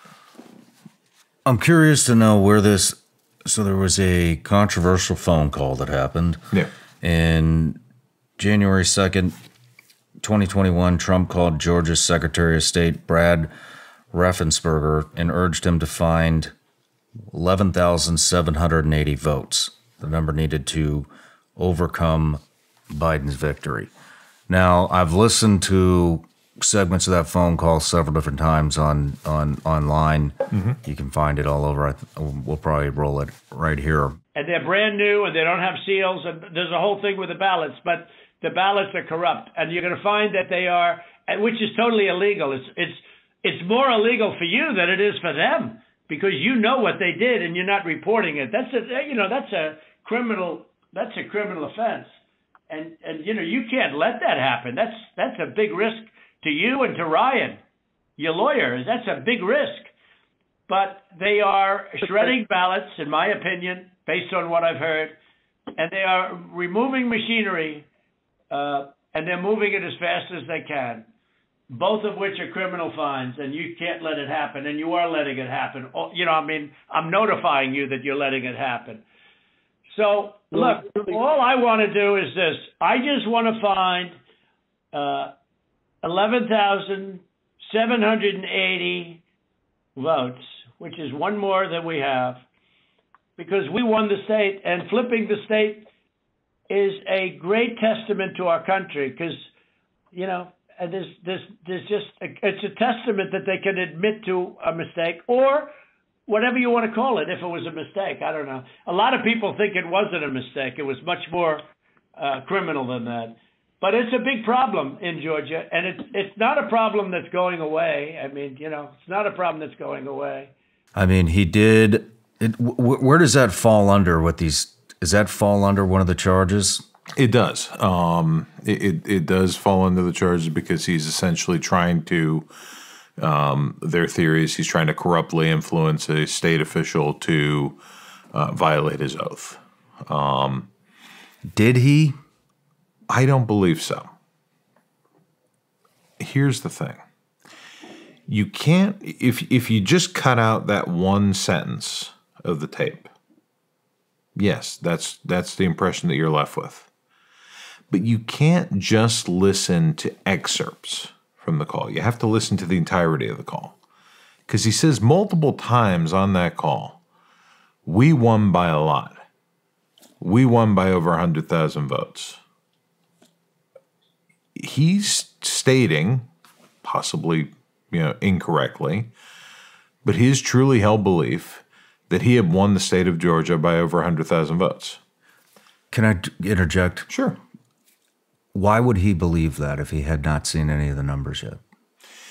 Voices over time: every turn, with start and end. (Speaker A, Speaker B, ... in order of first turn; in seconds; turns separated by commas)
Speaker A: 1.4-6.4, Speaker A: 7.0-7.8, Speaker A: 8.4-9.3, Speaker A: 10.2-13.5, Speaker A: 14.1-16.5, Speaker A: 17.3-23.9, Speaker A: 24.5-34.2, Speaker B: 34.3-52.1, Speaker B: 52.7-57.6, Speaker B: 58.2-59.9, Speaker B: 60.7-65.1, Speaker B: 65.8-67.8, Speaker B: 68.5-71.0, Speaker B: 71.7-79.0, Speaker B: 79.9-84.1, Speaker B: 84.9-85.3, Speaker B: 86.0-89.2, Speaker B: 90.0-92.4, Speaker B: 93.4-95.9, Speaker B: 96.7-99.5, Speaker B: 100.1-105.7, Speaker B: 106.3-111.6, Speaker B: 112.2-120.5, Speaker A: 121.0-126.8, Speaker C: 127.2-132.5, Speaker C: 133.2-137.8, Speaker C: 138.3-140.7, Speaker A: 141.5-142.2, Speaker C: 143.1-144.1, Speaker C: 146.2-147.0, Speaker C: 148.3-153.1, Speaker C: 154.3-156.9, Speaker C: 157.9-163.7, Speaker C: 164.5-167.0, Speaker C: 167.8-169.2, Speaker C: 170.2-172.4, Speaker C: 174.5-176.3, Speaker C: 176.8-179.1, Speaker C: 180.0-185.0, Speaker A: 185.9-187.1, Speaker C: 187.1-187.4, Speaker A: 188.5-191.6